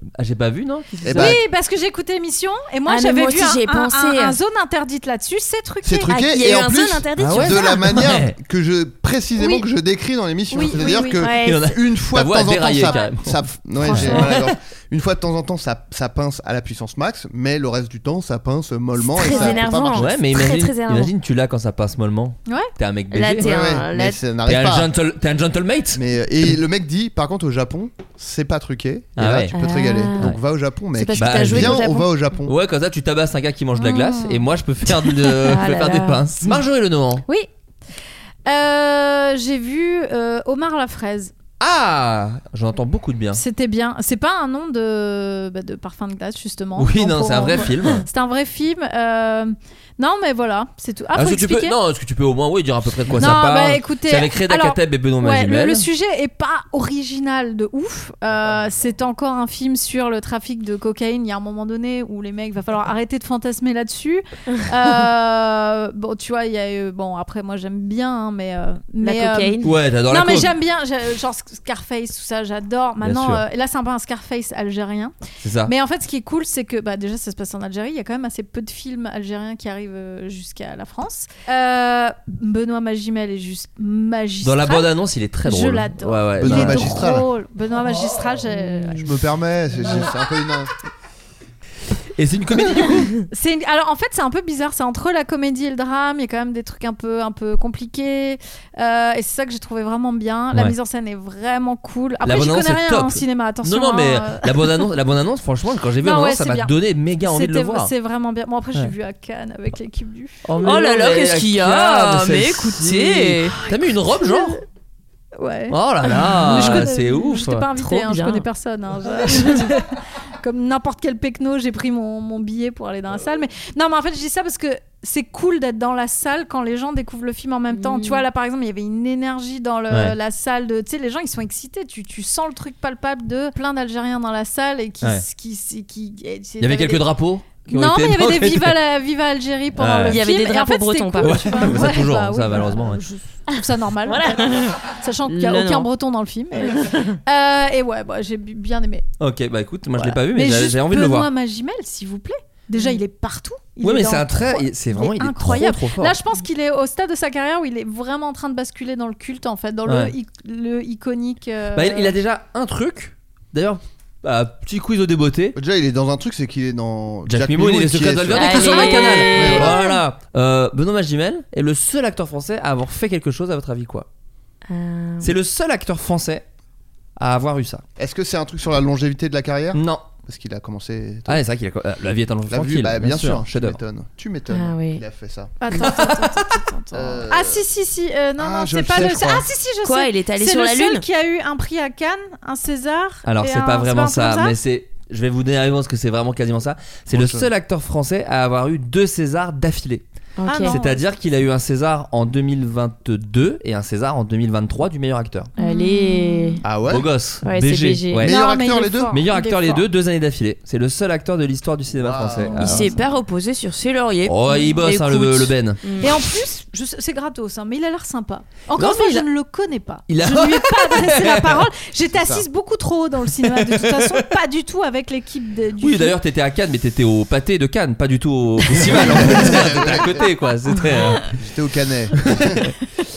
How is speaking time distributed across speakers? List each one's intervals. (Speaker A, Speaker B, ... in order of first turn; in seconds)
Speaker A: 0.2-1.4, 7.2-8.4, 11.4-14.5, 19.5-23.5, 24.5-26.5, 29.2-29.6, 31.2-31.9, 32.5-37.2, 41.6-43.4, 46.8-48.0, 51.1-55.9, 69.6-70.5, 73.0-73.4, 75.4-75.7, 84.4-87.0, 92.2-93.1, 102.2-107.9, 110.5-114.6, 115.7-117.7, 129.9-130.2, 136.6-138.8, 139.8-140.2, 141.2-143.0, 149.2-151.3, 153.8-156.2, 159.9-160.1, 161.7-165.6, 167.3-174.1, 175.2-176.4, 177.2-177.8, 179.7-180.1, 181.3-183.8, 185.7-186.4, 193.3-200.0, 200.6-205.5, 206.9-208.4, 209.1-212.9, 214.2-215.8, 218.8-219.3, 220.1-221.7, 223.4-224.2, 225.8-231.3, 232.2-232.7
Speaker B: 1.0-1.4, 5.8-20.1, 23.4-24.9, 25.9-32.5, 86.4-87.3, 89.0-90.7, 165.6-168.8, 169.3-169.7, 178.0-181.4, 182.5-185.6, 186.9-187.7, 188.4-189.5, 197.1-197.5, 206.6-207.1, 208.2-209.2, 211.9-212.7, 222.1-222.5, 228.7-230.2, 231.4-232.6
Speaker C: 1.1-6.1, 10.5-11.3, 13.8-14.2, 33.8-34.4, 38.5-41.3, 43.3-51.8, 53.2-75.1, 75.7-84.9, 85.4-89.1, 93.3-104.9, 106.0-110.4, 114.2-114.6, 115.4-149.1, 150.1-162.2, 168.5-170.0, 185.6-194.6, 200.5-201.0, 205.6-206.6, 208.2-209.9, 212.7-212.9, 216.0-226.2
Speaker D: 2.9-4.4, 6.1-7.9, 10.8-11.7, 19.0-21.1, 23.1-24.2, 29.5-30.3, 30.9-32.1, 35.4-36.3, 69.0-69.7, 110.6-113.6, 116.6-116.8, 117.8-118.5, 119.3-119.7, 127.7-128.2, 140.1-142.0, 144.1-145.9, 146.7-147.2, 168.3-169.8, 174.7-175.3, 184.5-185.0, 189.8-191.0, 200.4-200.8, 205.6-206.6, 207.4-208.3, 212.6-216.3